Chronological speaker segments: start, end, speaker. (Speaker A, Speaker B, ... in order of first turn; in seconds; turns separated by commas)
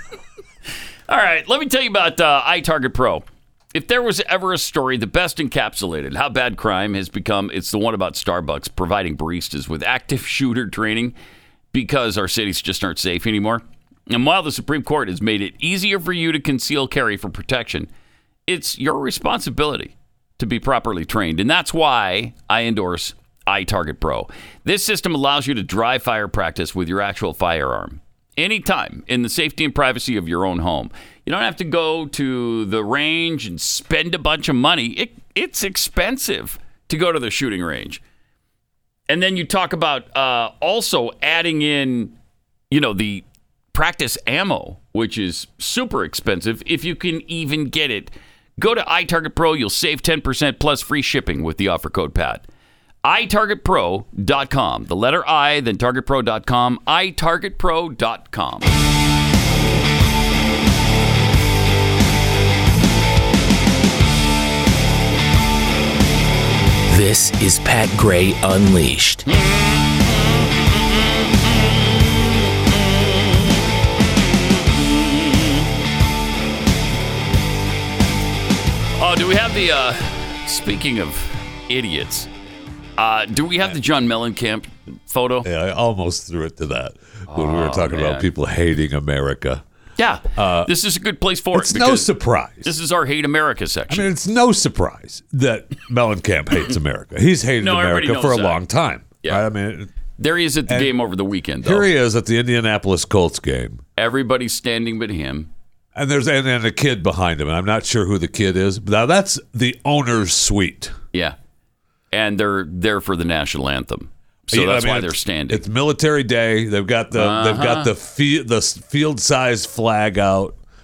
Speaker A: 1.1-11.1, Speaker A: 11.7-17.9, Speaker A: 18.5-38.0, Speaker A: 39.1-42.1, Speaker A: 42.7-52.5, Speaker A: 53.0-58.7, Speaker B: 66.9-69.2, Speaker A: 69.3-69.8, Speaker A: 72.7-73.3, Speaker A: 74.5-75.6, Speaker A: 79.0-82.3, Speaker A: 83.0-85.5, Speaker C: 85.4-89.6, Speaker A: 87.3-88.3, Speaker A: 90.0-94.1, Speaker C: 90.3-90.7, Speaker C: 91.5-92.7, Speaker C: 93.9-99.9, Speaker A: 97.6-98.6, Speaker A: 100.2-101.9, Speaker C: 100.7-100.9, Speaker C: 101.6-103.8, Speaker A: 104.0-105.5, Speaker C: 106.0-111.0, Speaker A: 112.1-115.6, Speaker C: 114.5-120.6, Speaker A: 117.1-117.9